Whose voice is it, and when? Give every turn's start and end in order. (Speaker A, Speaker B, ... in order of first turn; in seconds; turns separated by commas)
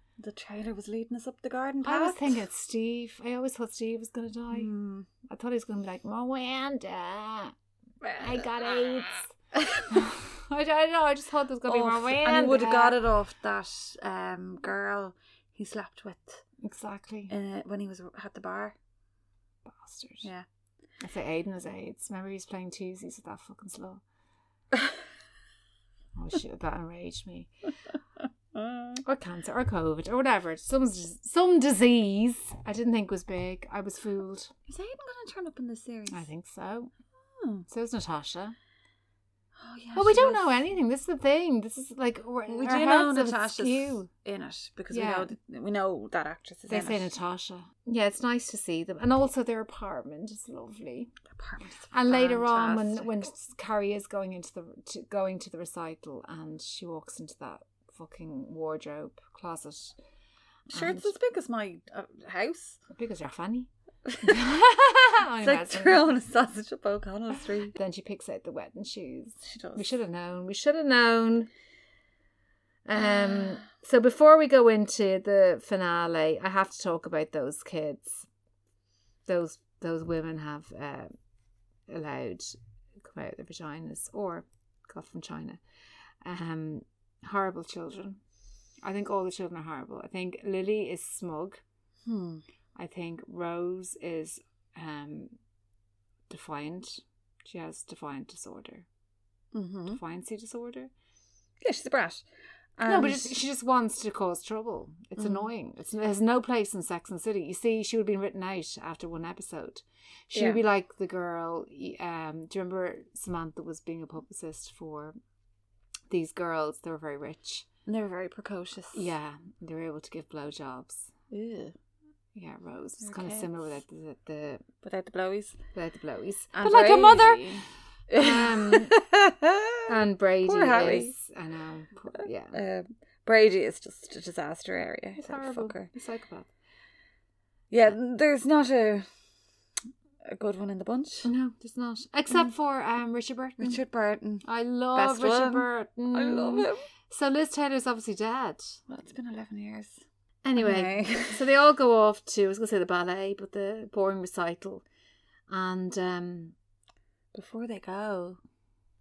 Speaker A: 0.2-2.5, Speaker B: 1.8-4.7, Speaker A: 4.5-5.1, Speaker B: 5.3-7.5, Speaker A: 8.0-10.1, Speaker B: 8.1-9.3, Speaker B: 9.9-13.0, Speaker A: 11.7-16.4, Speaker B: 16.6-17.3, Speaker A: 17.3-18.8, Speaker B: 19.7-20.3, Speaker B: 21.0-24.0, Speaker B: 26.1-27.5, Speaker A: 28.5-29.0, Speaker B: 29.0-34.5, Speaker A: 34.7-36.2, Speaker B: 36.1-36.9, Speaker A: 37.2-37.7, Speaker B: 37.7-38.5, Speaker A: 39.5-40.6, Speaker B: 39.9-44.1, Speaker A: 42.5-47.1, Speaker B: 44.9-45.3, Speaker B: 46.7-51.2, Speaker A: 51.3-53.2, Speaker B: 51.9-60.0, Speaker A: 60.7-62.8, Speaker B: 60.7-61.1, Speaker B: 62.9-63.7, Speaker A: 64.0-64.5, Speaker B: 64.2-66.1, Speaker A: 65.4-67.7, Speaker B: 67.7-71.5, Speaker A: 69.4-69.9, Speaker B: 72.9-78.3, Speaker A: 73.0-73.6, Speaker B: 79.3-81.1, Speaker B: 81.9-85.6, Speaker B: 86.2-88.2, Speaker B: 88.8-91.6, Speaker A: 92.0-92.4, Speaker B: 92.8-95.4, Speaker B: 96.3-98.9, Speaker A: 99.5-100.0, Speaker B: 99.9-100.9, Speaker A: 101.6-102.3, Speaker A: 102.8-103.3, Speaker B: 102.9-115.2, Speaker A: 105.2-105.5, Speaker A: 110.3-110.6, Speaker B: 116.1-117.7, Speaker A: 117.9-119.1, Speaker B: 118.9-121.1, Speaker A: 121.3-121.7, Speaker B: 122.3-124.6, Speaker A: 123.0-123.5, Speaker A: 124.8-125.6, Speaker B: 125.7-127.6, Speaker A: 126.5-129.9, Speaker B: 128.1-128.9, Speaker B: 129.9-132.6, Speaker A: 130.4-131.1, Speaker A: 132.1-135.9, Speaker B: 135.1-136.5, Speaker A: 137.7-139.1, Speaker A: 140.3-141.3, Speaker B: 141.2-143.8, Speaker A: 143.6-146.9, Speaker B: 144.4-148.8, Speaker A: 148.9-150.0, Speaker B: 150.4-154.8, Speaker A: 150.6-151.4, Speaker B: 155.5-156.6, Speaker A: 157.3-158.4